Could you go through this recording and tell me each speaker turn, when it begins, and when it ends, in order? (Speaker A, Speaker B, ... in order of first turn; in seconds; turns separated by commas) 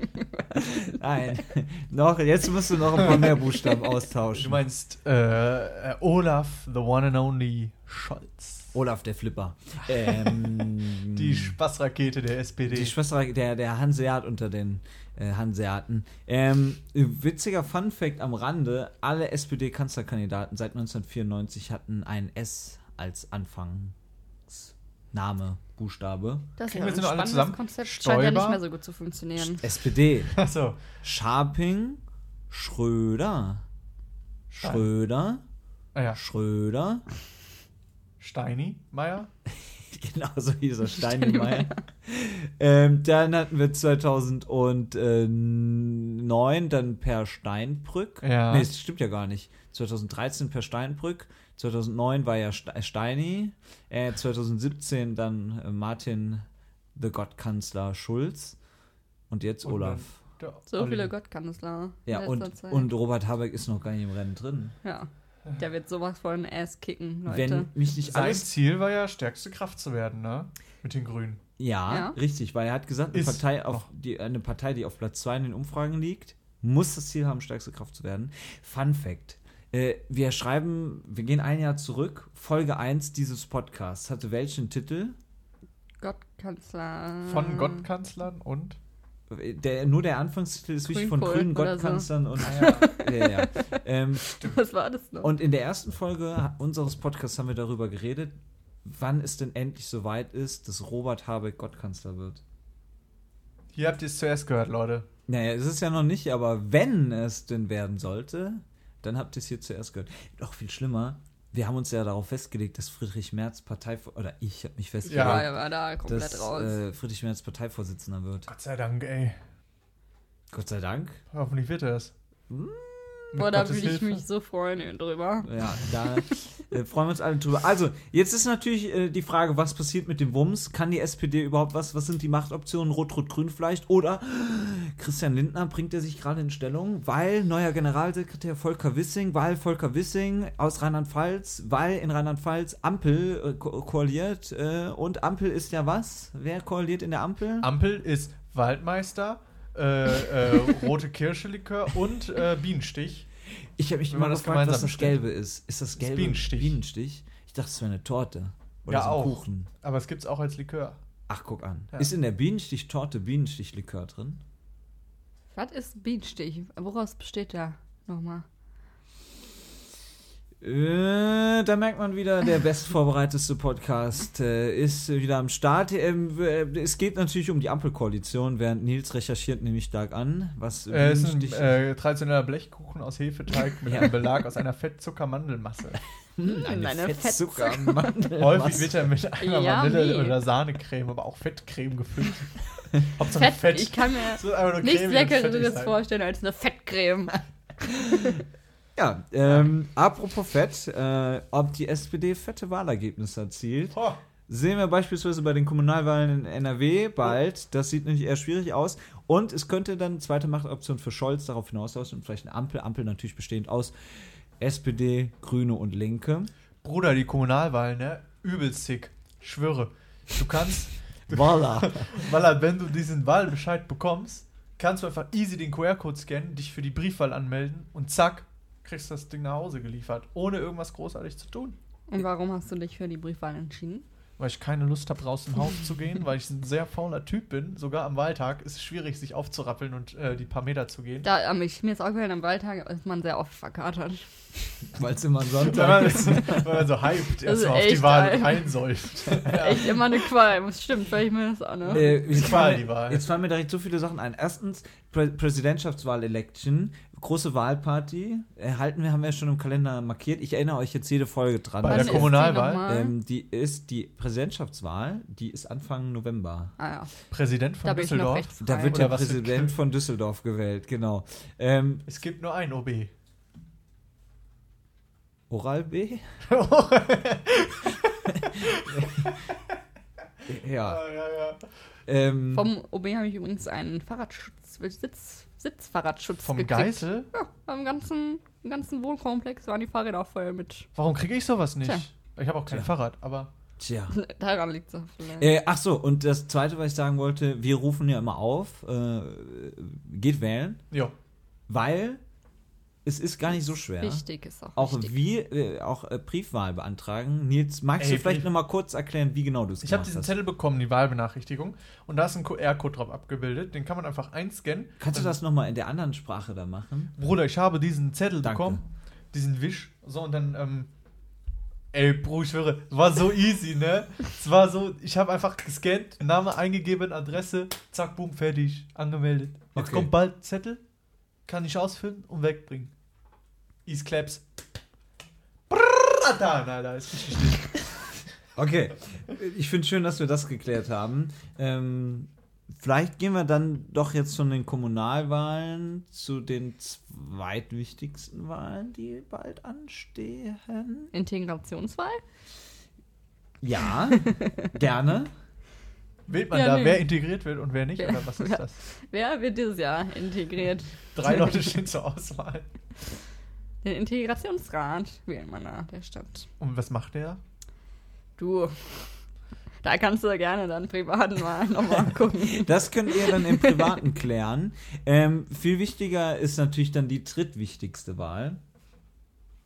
Speaker A: 0.5-4.6, Speaker B: 4.3-8.7, Speaker A: 8.7-11.6, Speaker B: 9.9-12.9, Speaker A: 12.7-23.9, Speaker A: 24.5-26.5, Speaker C: 26.6-29.6, Speaker B: 26.7-28.6, Speaker A: 29.4-30.4, Speaker B: 30.3-30.8, Speaker A: 31.0-33.6, Speaker B: 34.5-34.9, Speaker A: 34.5-35.4, Speaker B: 36.0-36.2, Speaker A: 36.2-37.0, Speaker B: 38.2-39.3, Speaker A: 39.8-56.5, Speaker C: 41.0-41.8, Speaker B: 48.2-48.7, Speaker A: 57.0-58.6, Speaker A: 59.3-60.2, Speaker B: 59.6-61.1, Speaker C: 60.7-62.9, Speaker A: 62.1-64.8, Speaker C: 64.8-67.7, Speaker A: 67.3-68.5, Speaker B: 68.0-71.4, Speaker A: 71.6-85.2, Speaker C: 71.9-72.2, Speaker B: 73.1-73.9, Speaker C: 86.0-87.8, Speaker B: 87.3-88.8, Speaker A: 89.3-94.3, Speaker C: 90.9-95.3, Speaker B: 92.5-92.9, Speaker A: 95.2-102.4, Speaker B: 103.7-105.1, Speaker A: 105.3-118.5, Speaker C: 115.0-116.8, Speaker B: 115.1-115.4, Speaker B: 118.5-119.4, Speaker A: 120.5-121.2, Speaker B: 121.3-122.1, Speaker A: 122.5-123.5, Speaker B: 123.3-124.2, Speaker C: 123.3-125.5, Speaker A: 125.4-147.7, Speaker B: 147.6-153.3, Speaker A: 153.8-159.7, Speaker B: 154.1-155.2, Speaker B: 156.0-156.8, Speaker B: 158.9-161.0, Speaker A: 161.3-164.4, Speaker C: 165.5-168.4, Speaker A: 170.6-181.8, Speaker B: 180.9-186.0, Speaker A: 183.9-184.1, Speaker A: 186.4-189.1, Speaker C: 186.4-188.3, Speaker B: 188.3-196.0, Speaker C: 189.4-190.4, Speaker C: 193.3-197.4, Speaker A: 199.0-213.9, Speaker B: 203.9-204.2, Speaker A: 214.6-216.5, Speaker B: 216.8-231.8, Speaker A: 221.3-222.1, Speaker C: 232.1-234.1, Speaker B: 234.4-241.3, Speaker C: 241.2-244.2, Speaker A: 244.9-246.7, Speaker B: 245.6-250.2, Speaker C: 247.4-252.2, Speaker B: 251.8-253.2, Speaker A: 251.9-266.7, Speaker B: 261.8-262.9, Speaker C: 261.8-263.1, Speaker C: 266.8-267.1, Speaker B: 267.3-269.8, Speaker C: 267.8-269.1, Speaker A: 268.6-272.1, Speaker B: 272.1-273.1, Speaker A: 275.5-276.4, Speaker B: 276.4-279.6, Speaker A: 278.3-279.3, Speaker A: 280.5-281.1, Speaker B: 280.8-281.6, Speaker A: 282.1-282.7, Speaker C: 282.5-290.9, Speaker B: 286.4-287.3, Speaker B: 290.9-293.5, Speaker A: 293.8-294.2, Speaker C: 294.1-295.5, Speaker A: 295.4-300.8, Speaker A: 301.7-302.2, Speaker A: 303.1-304.2, Speaker C: 304.0-305.1, Speaker A: 304.8-310.4, Speaker B: 308.0-308.5, Speaker B: 309.8-315.4, Speaker A: 315.0-317.1, Speaker B: 317.2-320.9, Speaker A: 318.4-318.8, Speaker B: 321.9-330.8, Speaker A: 329.8-330.1, Speaker B: 331.5-332.9, Speaker B: 333.9-334.5, Speaker B: 335.7-337.9, Speaker A: 338.6-351.1, Speaker C: 351.1-352.2, Speaker A: 353.6-355.3, Speaker B: 356.3-358.8, Speaker C: 356.5-357.1, Speaker C: 358.0-361.4, Speaker B: 361.1-362.7, Speaker C: 363.8-366.5, Speaker B: 366.6-367.4, Speaker C: 368.4-369.1, Speaker C: 369.8-374.0, Speaker A: 372.4-378.6